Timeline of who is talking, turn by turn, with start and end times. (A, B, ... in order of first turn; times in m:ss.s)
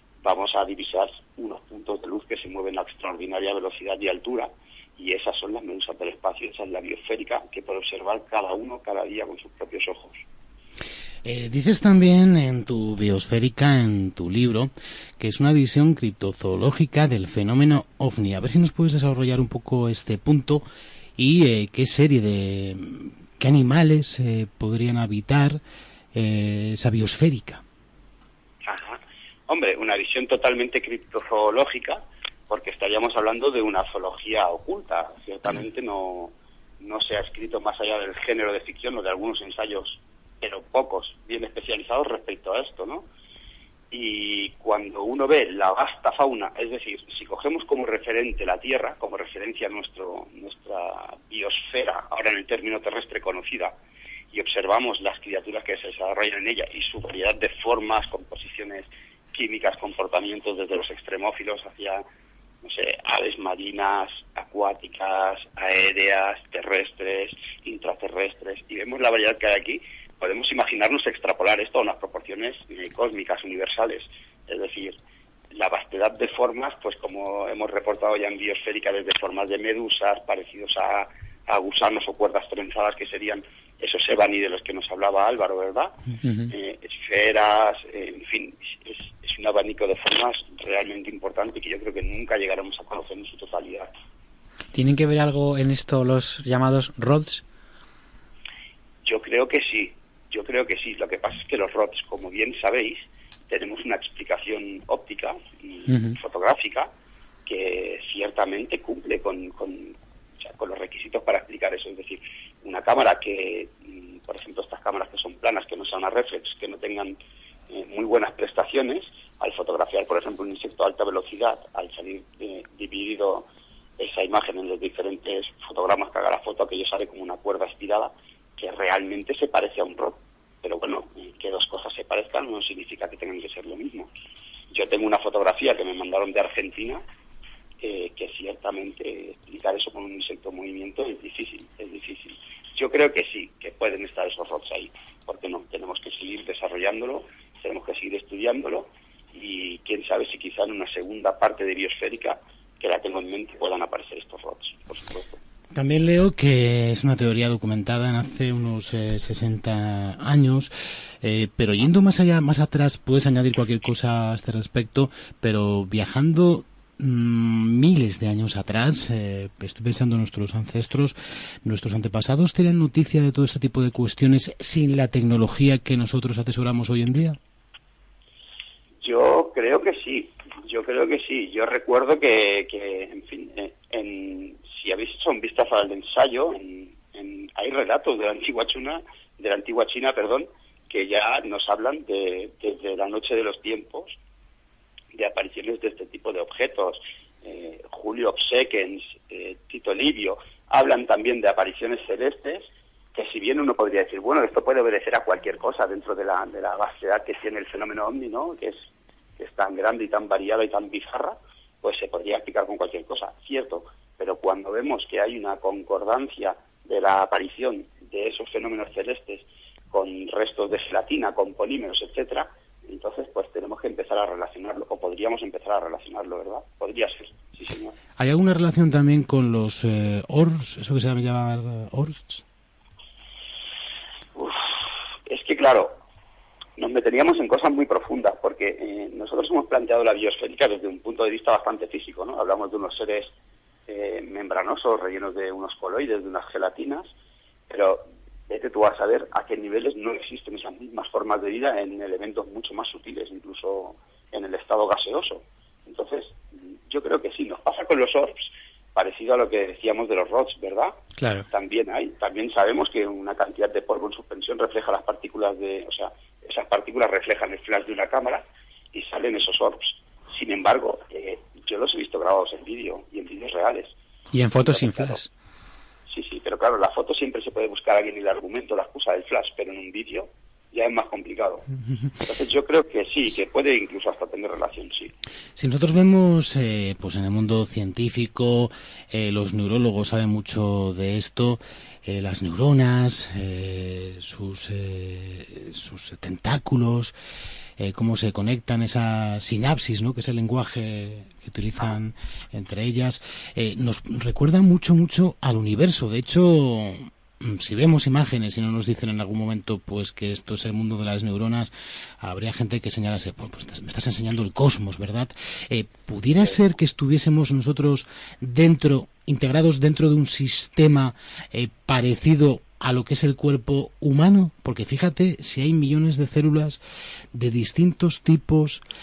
0:00.2-0:10.2 A
0:11.2-0:20.6 B
0:21.2-0:25.6 B
0:26.1-0:27.6 B
0:28.6-0:43.0 A
0:43.9-0:53.7 A
0:54.3-1:02.0 A
1:02.6-1:15.0 A
1:15.5-1:26.0 A
1:26.2-1:26.5 C
1:26.5-1:33.9 A
1:34.7-1:37.4 C
1:39.0-1:46.9 A
1:45.9-1:46.2 C
1:47.4-1:57.2 A
1:57.7-2:03.5 A
2:04.0-2:14.1 A
2:14.7-2:17.0 A
2:17.8-2:35.4 A
2:35.7-2:40.7 B
2:41.2-2:57.4 B
2:59.0-3:14.2 A
3:15.1-3:28.8 A
3:29.4-3:47.9 A
3:48.2-3:52.4 B
3:54.3-3:54.7 A
3:55.3-3:56.0 A
3:56.8-4:03.3 A
4:03.9-4:07.1 A
4:07.7-4:21.0 A
4:21.2-4:21.5 C
4:21.5-4:33.9 A
4:34.3-4:35.3 C
4:34.6-4:35.2 A
4:36.1-4:41.7 A
4:42.2-4:45.1 A
4:45.6-4:57.1 B
4:57.8-5:26.8 B
5:27.3-5:28.8 B